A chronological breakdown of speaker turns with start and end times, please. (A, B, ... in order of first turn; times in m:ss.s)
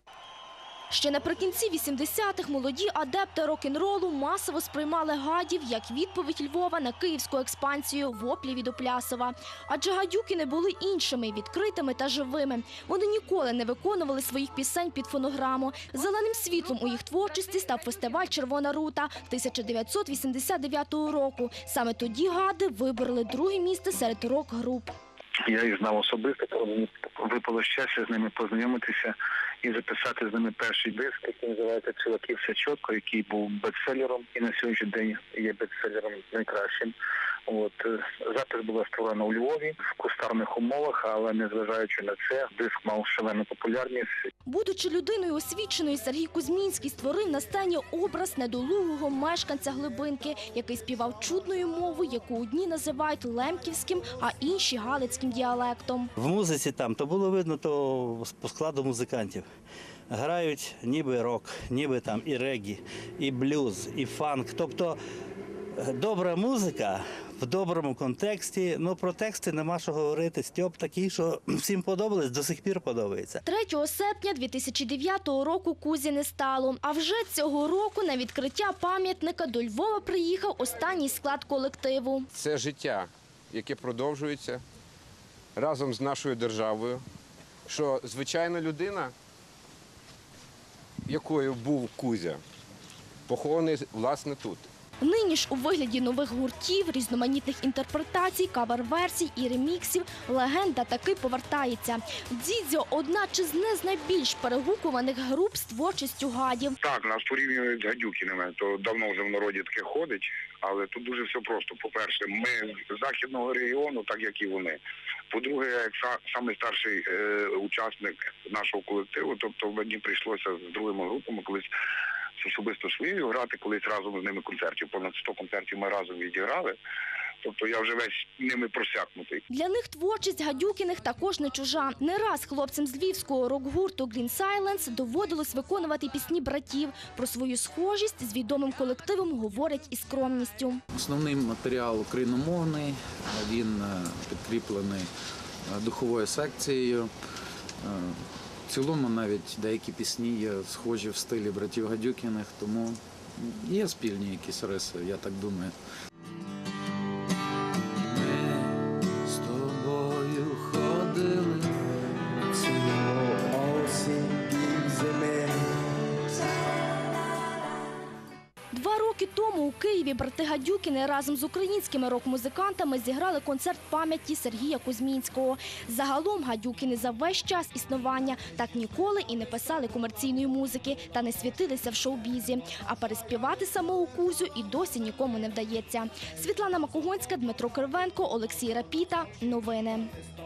0:00.9-0:24.9 A
0:25.4-0:36.9 B
0:37.4-0:44.3 B
0:44.4-0:56.1 A
0:56.2-0:59.4 C
1:00.1-1:05.0 C
1:05.7-1:13.4 C
1:13.4-1:22.3 A
1:22.3-1:24.6 D
1:25.6-1:27.0 D
1:27.7-1:29.1 D
1:31.0-1:32.4 D
1:33.3-1:34.7 D
1:35.0-1:46.8 A
1:46.8-1:54.8 E
1:55.3-2:01.7 E
2:02.4-2:06.8 E
2:07.4-2:09.4 E
2:09.5-2:20.8 A
2:20.9-2:25.1 F
2:25.7-2:27.1 F
2:27.8-2:35.7 F
2:38.0-2:41.8 F
2:48.7-3:10.1 A